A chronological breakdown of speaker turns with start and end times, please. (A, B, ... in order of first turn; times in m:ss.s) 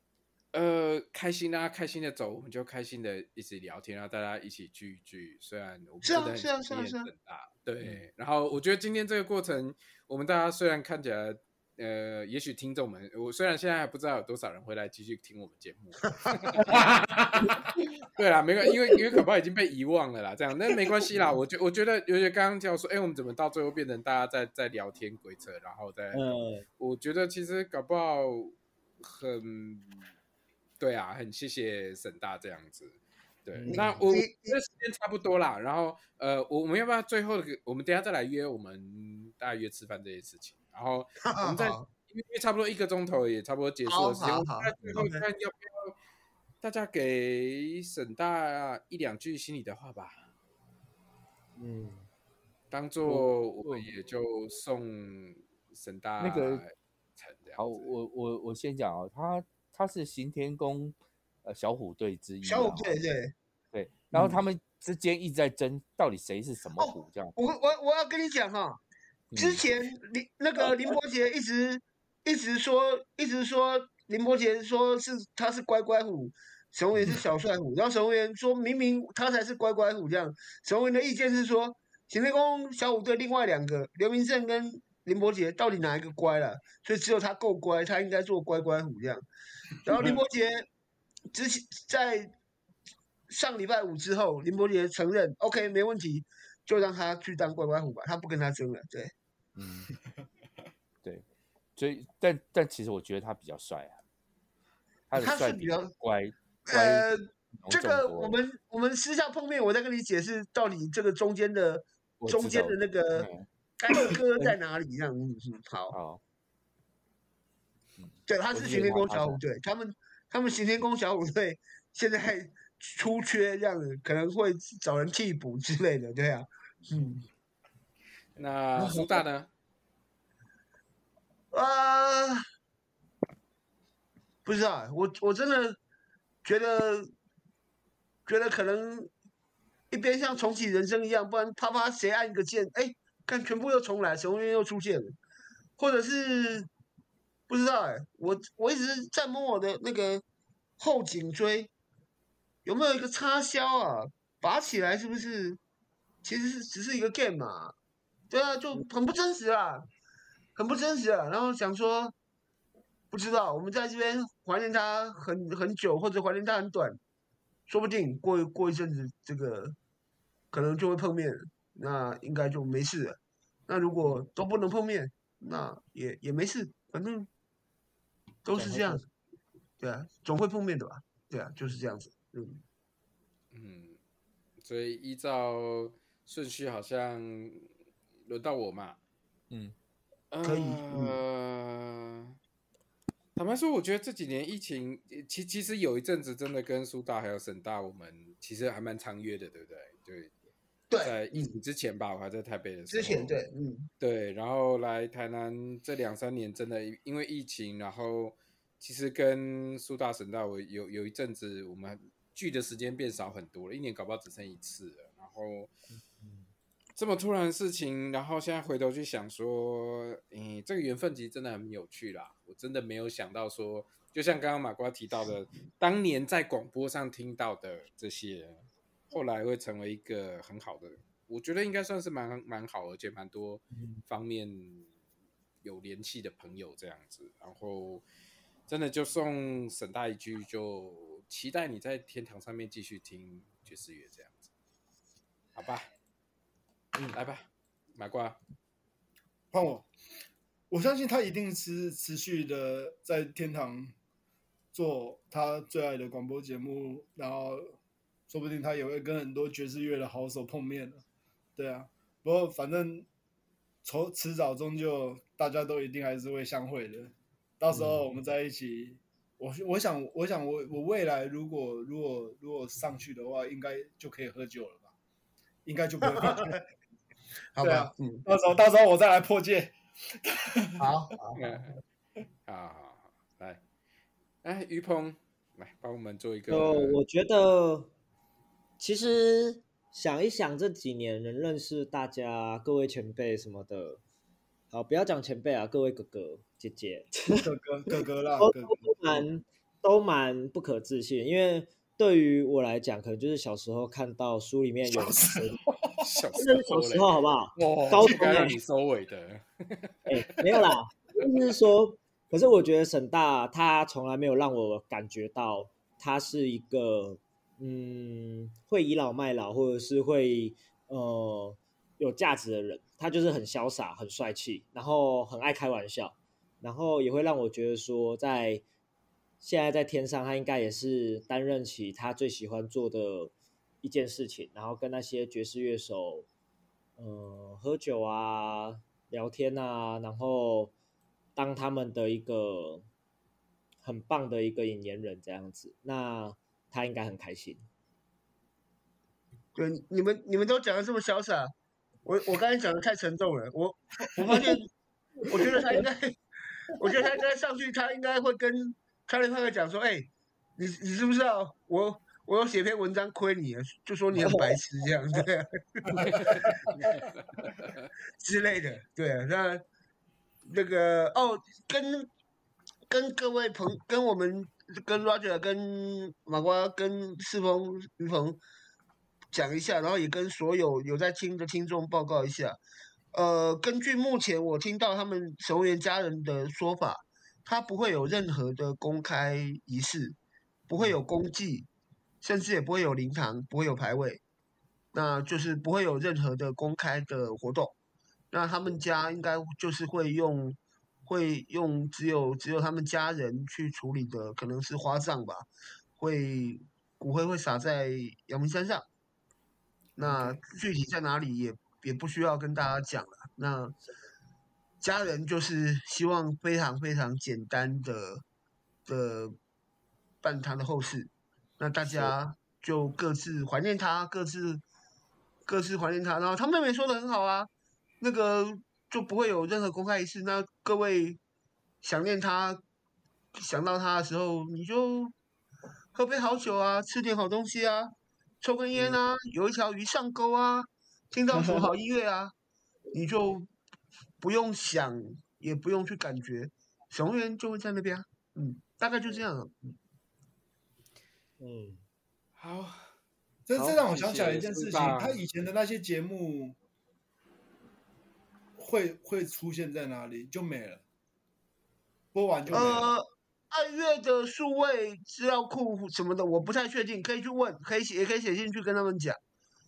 0:00.5-0:26.2 A
0:06.0-0:07.1 B
0:26.1-0:26.6 C
0:26.8-0:30.0 A
0:30.8-0:46.0 A
0:33.5-0:33.8 C
0:33.7-0:34.6 B
0:41.2-0:41.8 B
0:43.9-0:45.2 B
0:46.6-0:50.2 A
0:51.6-0:52.0 C
0:52.7-0:57.9 A
0:53.0-0:53.9 D
0:56.2-0:56.6 D
0:57.6-1:03.0 D
1:02.4-1:03.3 B
1:03.7-1:07.4 D
1:04.1-1:04.4 B
1:06.8-1:08.8 B
1:09.3-1:09.6 D
1:09.3-1:29.2 B
1:29.8-1:30.6 B
1:31.3-1:32.3 B
1:33.3-1:39.1 B
1:39.6-1:39.9 D
1:41.8-1:44.0 D
1:45.1-1:47.1 D
1:45.2-1:45.9 B
1:46.7-1:53.3 B
1:47.6-1:48.4 D
1:52.2-1:53.4 D
1:53.8-1:56.0 B
1:54.0-1:54.6 D
1:55.9-1:56.2 D
1:58.0-1:59.4 D
1:58.3-2:07.2 B
2:08.4-2:09.5 A
2:08.8-2:09.2 B
2:11.5-2:12.4 B
2:14.4-2:15.8 B
2:16.4-2:17.1 B
2:18.2-2:19.1 B
2:19.9-2:25.2 B
2:25.8-2:26.7 B
2:27.5-2:30.2 B
2:30.8-2:31.7 B
2:32.6-2:35.6 B
2:36.2-2:37.7 B
2:38.3-2:39.8 B
2:40.6-2:42.1 B
2:43.1-2:47.0 B
2:47.7-2:49.7 B
2:50.5-2:53.2 B
2:53.7-2:57.3 B
2:58.4-2:59.0 B
2:58.5-2:59.0 C
2:59.8-3:02.6 B
3:03.5-3:04.0 A
3:04.6-3:07.7 A
3:08.2-3:09.0 A
3:10.3-3:12.4 A
3:10.4-3:11.2 B
3:13.4-3:20.3 A
3:20.9-3:21.5 B
3:21.0-3:23.4 A
3:22.9-3:23.9 B
3:24.0-3:35.7 A
3:37.0-3:54.9 A
3:55.6-3:58.0 A
3:58.7-4:04.5 A
4:05.5-4:05.9 A
4:07.1-4:08.4 A
4:09.5-4:09.9 E
4:10.7-4:13.9 E
4:14.7-4:17.7 E
4:18.3-4:21.0 E
4:21.6-4:23.1 E
4:23.8-4:34.9 E
4:35.6-4:36.6 E
4:36.1-4:36.5 B
4:37.6-4:38.2 B
4:37.6-4:40.9 E
4:40.8-4:41.4 B
4:41.3-4:41.8 A
4:42.4-4:43.6 A
4:44.4-4:47.0 A
4:46.5-4:47.9 C
4:48.8-4:54.0 C
4:54.7-4:57.5 C
4:57.3-4:59.2 E
4:58.4-5:05.6 C
5:04.9-5:06.0 E
5:06.0-5:09.4 A
5:06.4-5:08.5 C
5:07.6-5:08.5 E
5:10.0-5:28.6 C
5:29.4-5:36.3 C
5:37.0-5:40.7 C
5:41.4-5:42.8 C
5:43.8-5:47.6 C
5:49.5-5:51.5 B
5:52.0-5:54.7 B
5:54.3-5:54.5 C
5:55.2-6:07.0 B
5:55.3-5:55.8 C
6:04.1-6:04.6 C
6:05.9-6:06.5 E
6:06.0-6:07.9 A
6:08.2-6:09.6 B
6:10.5-6:12.1 B
6:12.9-6:18.4 B
6:19.3-6:22.6 B
6:23.1-6:30.2 B
6:30.7-6:31.7 B
6:32.2-6:34.2 B
6:34.9-6:37.7 B
6:38.3-6:45.5 B
6:46.0-6:48.8 B
6:50.0-6:53.7 B
6:54.8-6:58.2 B
6:58.9-6:59.3 B
7:00.2-7:04.6 B
7:05.4-7:07.5 B
7:08.0-7:11.2 B
7:11.8-7:12.6 B
7:13.3-7:15.1 B
7:15.9-7:17.9 B
7:18.4-7:22.3 B
7:21.3-7:21.7 C
7:22.9-7:23.5 B
7:24.2-7:29.7 B
7:31.4-7:31.8 C
7:32.4-7:32.9 A
7:33.5-7:36.6 E
7:33.6-7:35.2 A
7:38.6-7:40.8 E
7:42.1-7:42.9 E
7:42.5-7:49.2 B